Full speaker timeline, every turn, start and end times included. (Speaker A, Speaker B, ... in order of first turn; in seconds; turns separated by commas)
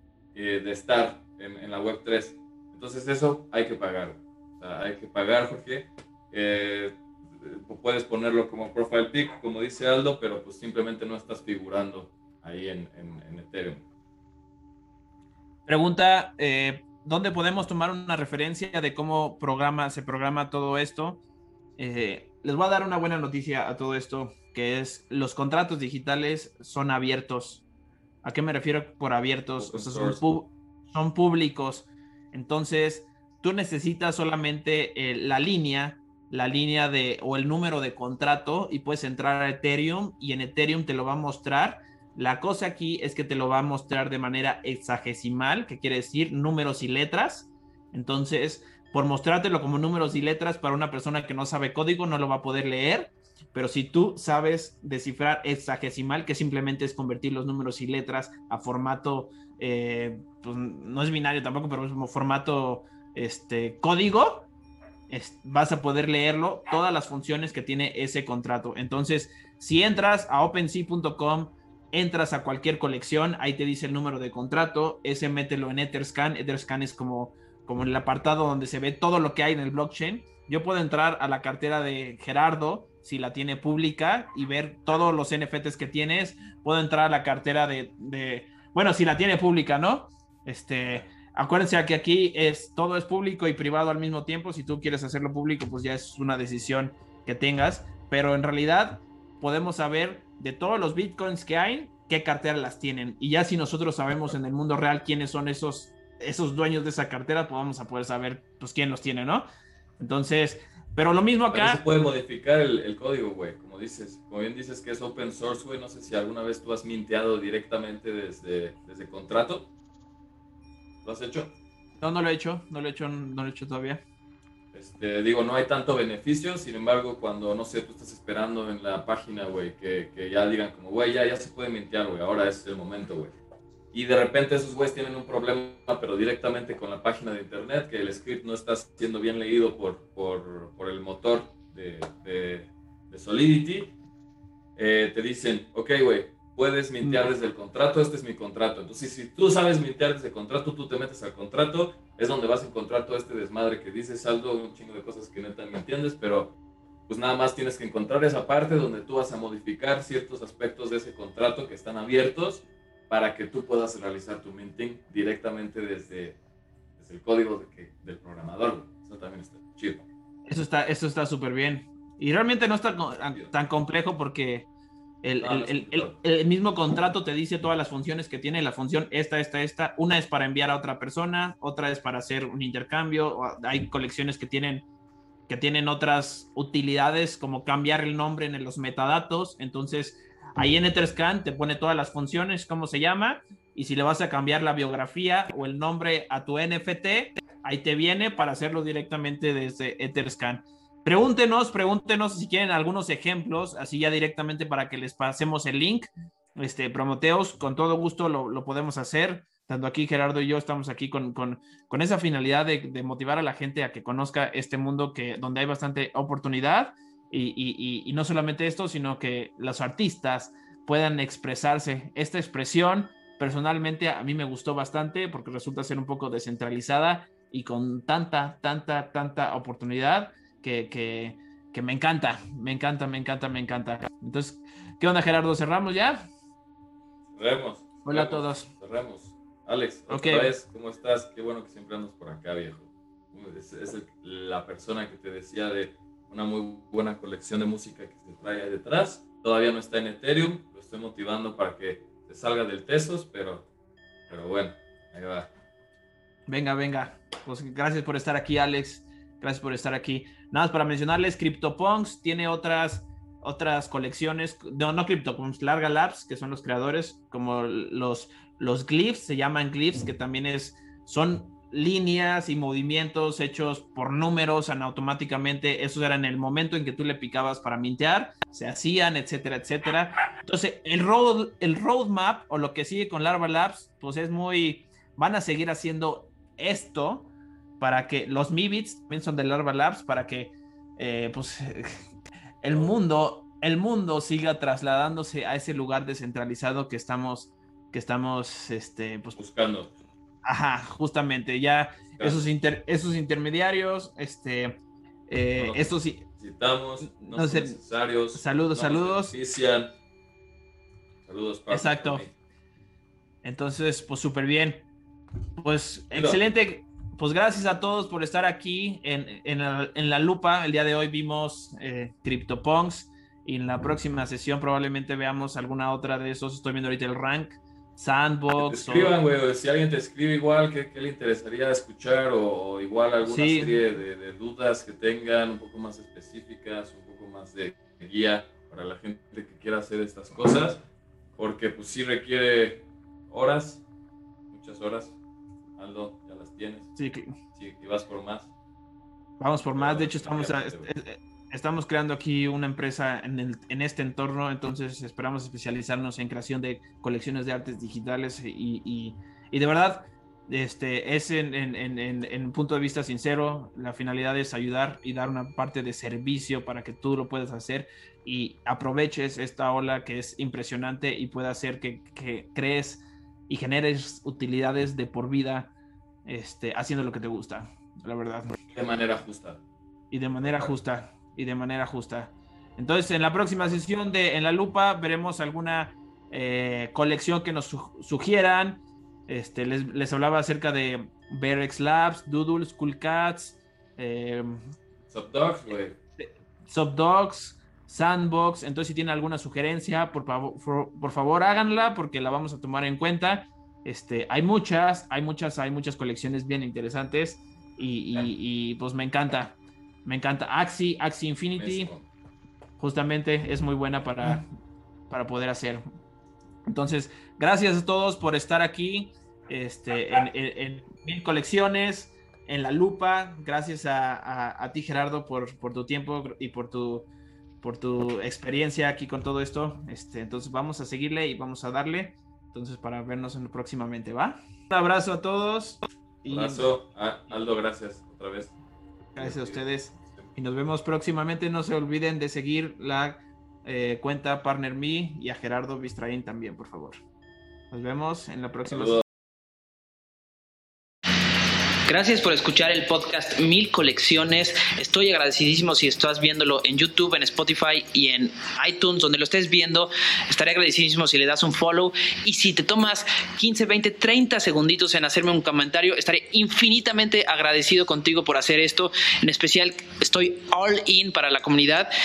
Speaker A: 0.3-13.8, Speaker B: 15.7-21.2, Speaker B: 21.8-27.6, Speaker B: 28.2-64.5, Speaker A: 29.6-30.4, Speaker B: 65.1-109.5, Speaker B: 110.0-111.8, Speaker A: 111.5-119.7, Speaker A: 121.0-121.5, Speaker B: 122.0-124.0, Speaker A: 124.7-133.3, Speaker A: 133.9-144.0, Speaker A: 144.8-156.6, Speaker A: 157.1-166.4, Speaker A: 167.0-170.1, Speaker B: 170.4-174.7, Speaker A: 173.3-173.5, Speaker B: 175.2-184.8, Speaker A: 175.4-176.2, Speaker B: 185.5-236.2, Speaker A: 237.3-253.7, Speaker B: 238.0-238.7, Speaker B: 240.1-240.5, Speaker A: 254.3-255.5, Speaker B: 256.5-292.1, Speaker B: 292.6-299.4, Speaker A: 299.4-299.9, Speaker B: 300.4-306.2, Speaker A: 302.1-302.4, Speaker A: 305.6-309.9, Speaker B: 307.0-307.8, Speaker B: 308.3-309.3, Speaker A: 311.2-312.3, Speaker B: 311.7-312.2, Speaker B: 313.4-314.9, Speaker B: 315.6-329.1, Speaker A: 316.1-316.4, Speaker A: 328.6-340.8, Speaker B: 333.2-333.8, Speaker A: 341.4-343.8, Speaker A: 344.5-345.2, Speaker A: 345.8-346.9, Speaker B: 346.9-347.4, Speaker A: 347.5-348.5, Speaker B: 349.4-375.7, Speaker A: 349.7-350.9, Speaker B: 376.2-378.6, Speaker A: 378.7-379.6, Speaker B: 380.1-394.7, Speaker A: 380.4-380.7, Speaker A: 395.1-396.0, Speaker B: 396.2-411.9, Speaker A: 411.5-412.1, Speaker B: 412.8-414.4, Speaker B: 415.1-415.8, Speaker B: 416.7-427.1, Speaker B: 427.6-436.6, Speaker A: 436.2-438.6, Speaker A: 439.1-440.3, Speaker B: 439.1-447.0, Speaker B: 447.7-449.0, Speaker A: 448.7-449.0, Speaker C: 451.9-471.9